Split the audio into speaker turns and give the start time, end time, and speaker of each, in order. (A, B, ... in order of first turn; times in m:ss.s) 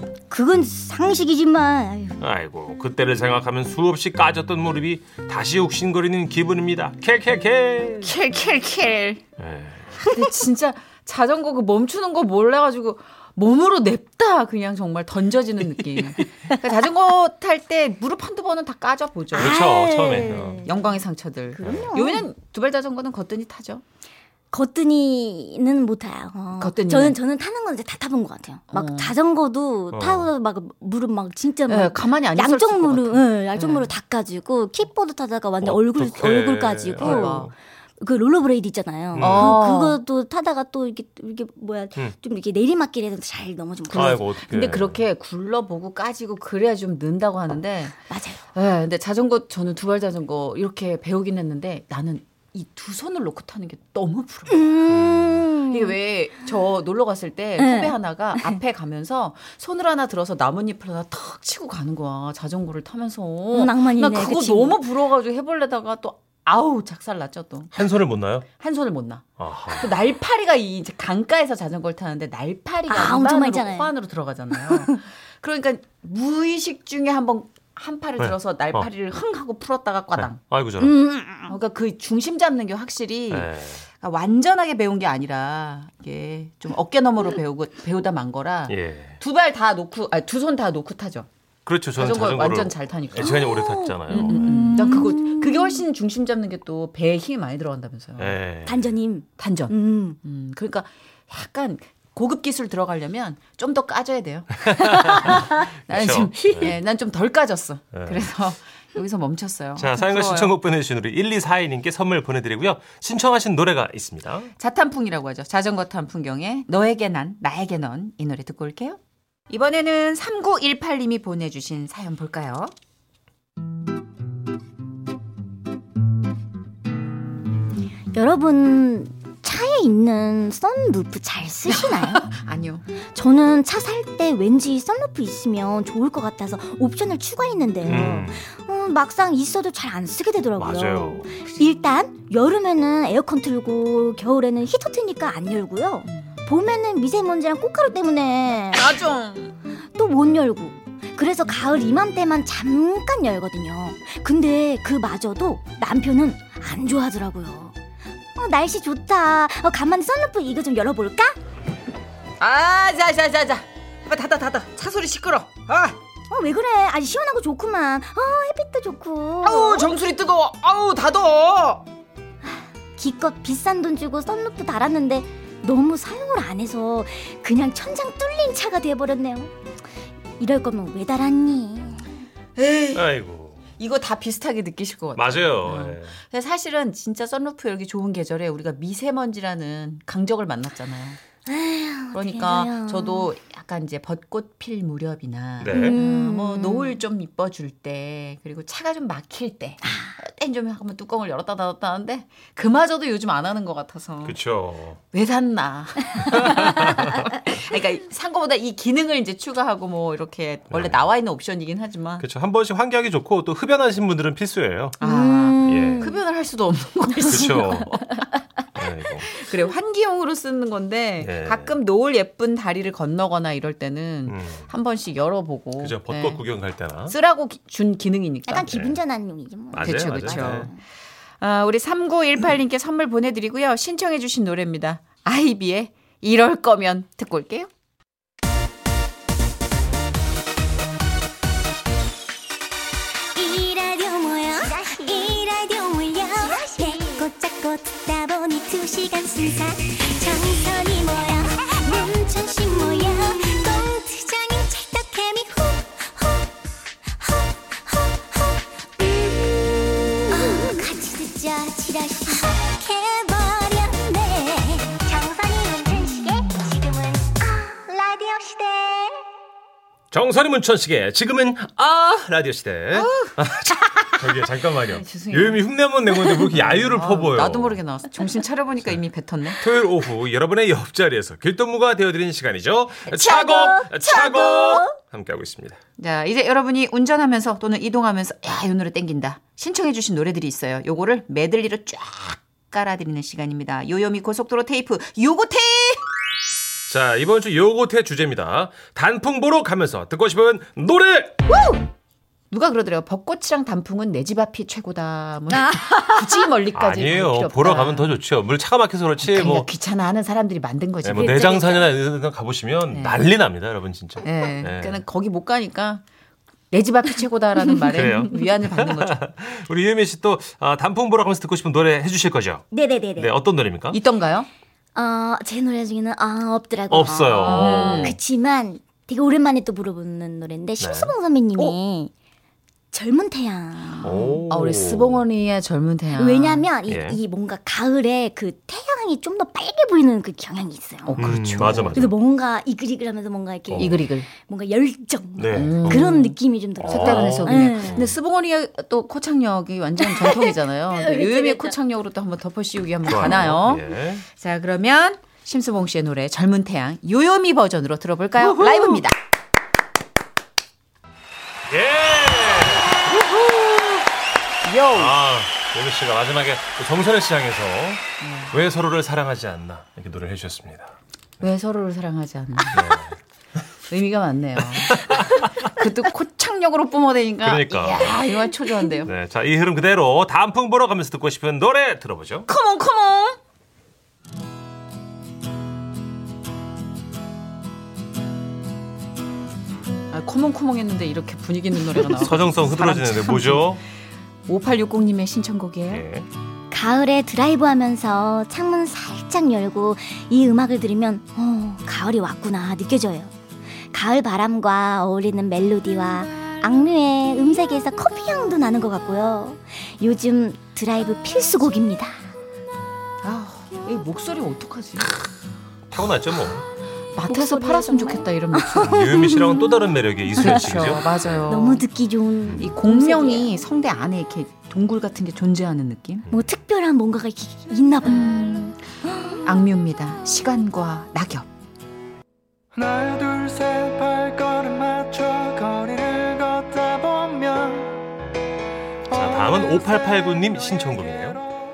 0:00.3-0:02.2 A
0:02.2-0:08.2 B
0:08.0-0:09.2 C
0:09.4-0:09.9 B
0:10.0-0:19.6 C
0:16.0-0:16.2 B
0:19.3-0:20.8 A
0:19.4-0:20.7 B
0:20.3-0:23.8 C
0:21.5-0:22.3 A
0:24.5-0:44.2 A
0:26.6-0:27.2 C
0:28.7-0:29.2 C
0:29.9-0:30.3 B
0:31.7-0:33.9 C
0:35.6-0:37.5 B
0:37.0-0:37.5 C
0:39.1-0:39.5 B
0:39.2-0:40.0 C
0:43.9-0:45.0 B
0:43.9-0:48.0 C
0:48.1-0:48.4 A
0:48.5-0:54.6 C
0:54.5-0:56.0 A
0:54.9-0:55.5 B
0:55.7-1:07.9 C
0:57.6-0:58.6 A
1:03.5-1:04.8 A
1:07.7-1:08.5 B
1:08.6-1:20.4 C
1:09.4-1:10.0 B
1:12.9-1:13.9 A
1:14.7-1:15.0 A
1:18.2-1:18.9 B
1:20.2-1:20.9 B
1:20.8-1:21.6 A
1:21.5-1:31.3 C
1:23.3-1:23.8 B
1:28.7-1:29.2 B
1:31.7-1:34.6 B
1:31.9-1:33.4 C
1:33.2-1:35.8 A
1:34.1-1:38.4 C
1:38.2-1:38.8 B
1:38.6-1:40.2 A
1:39.4-1:50.5 C
1:44.7-1:46.8 B
1:47.9-1:48.3 B
1:49.8-1:54.5 B
1:54.6-1:59.0 C
1:59.5-2:02.7 C
2:08.1-2:12.3 A
2:12.2-2:12.9 C
2:13.1-2:29.0 A
2:17.8-2:18.4 B
2:20.6-2:21.3 B
2:28.7-2:29.6 C
2:30.0-2:37.8 A
2:38.4-2:41.4 A
2:42.4-2:46.0 C
2:46.3-2:49.9 A
2:49.4-2:51.8 C
2:52.4-2:59.5 A
3:00.4-3:02.1 A
3:02.6-3:03.1 C
3:03.0-3:03.6 B
3:03.8-3:11.2 C
3:05.2-3:06.2 B
3:11.5-3:13.3 A
3:12.1-3:24.4 C
3:15.6-3:16.0 B
3:15.7-3:17.0 A
3:19.8-3:20.1 A
3:24.2-3:25.0 B
3:25.1-3:32.2 C
3:26.3-3:27.1 B
3:30.7-3:31.0 B
3:32.2-3:35.0 B
3:35.0-3:38.0 C
3:35.0-3:36.2 A
3:35.6-3:36.1 B
3:37.2-3:38.0 A
3:37.3-3:37.9 B
3:38.8-3:39.3 B
3:39.2-3:46.4 C
3:41.2-3:41.8 B
3:44.3-3:44.7 B
3:45.8-3:47.2 B
3:47.1-3:48.8 C
3:48.5-3:50.8 A
3:48.7-3:49.0 B
3:49.7-3:50.7 B
3:49.8-3:50.7 C
3:51.4-3:57.7 C
4:03.4-4:16.5 A
4:17.2-4:19.5 A
4:20.2-4:29.2 A
4:30.1-4:37.8 B
4:32.9-4:33.3 C
4:34.8-4:35.6 C
4:36.4-4:39.6 C
4:39.6-4:45.8 B
4:43.1-4:45.0 A
4:46.0-4:56.0 C
4:56.9-5:01.4 B
5:01.5-5:01.9 C
5:02.5-5:08.2 C
5:05.5-5:06.5 A
5:06.8-5:09.7 B
5:09.2-5:11.9 C
5:11.0-5:15.0 B
5:12.9-5:13.2 C
5:14.2-5:16.0 C
5:16.7-5:19.2 C
5:17.9-5:22.6 B
5:22.7-5:23.3 A
5:23.2-5:24.0 B
5:23.9-5:24.5 C
5:25.0-5:32.1 A
5:26.9-5:28.2 B
5:27.4-5:28.2 C
5:30.8-5:31.1 B
5:32.9-5:34.3 A
5:34.0-5:36.7 C
5:34.0-5:35.2 B
5:36.2-5:48.0 A
5:36.9-5:37.2 B
5:41.1-5:42.0 C
5:41.2-5:42.2 B
5:43.7-5:44.0 B
5:43.8-5:44.3 C
5:45.4-5:46.1 B
5:45.5-5:59.1 C
5:46.8-5:48.2 B
5:50.1-5:51.8 A
5:53.1-5:54.2 B
6:01.7-6:03.0 B
6:04.6-6:05.2 C
6:04.9-6:11.0 B
6:08.2-6:08.6 C
6:11.4-6:12.9 C
6:12.7-6:13.1 B
6:13.9-6:19.1 C
6:14.8-6:15.7 B
6:17.4-6:18.3 B
6:19.0-6:22.5 B
6:22.5-6:23.4 C
6:30.1-6:33.8 C
6:32.1-6:33.8 B
6:34.5-6:36.0 C
6:35.9-6:36.3 B
6:36.7-6:43.3 A
6:43.9-6:52.2 A
6:53.2-6:55.1 C
6:55.9-6:56.7 B
6:57.2-6:59.0 C
6:57.2-6:59.8 A
6:58.8-7:01.1 B
7:00.4-7:01.8 C
7:00.4-7:03.6 A
7:02.6-7:06.3 C
7:06.3-7:09.7 A
7:08.0-7:08.8 C
7:09.4-7:11.5 C
7:12.8-7:18.0 D
7:19.1-7:21.4 B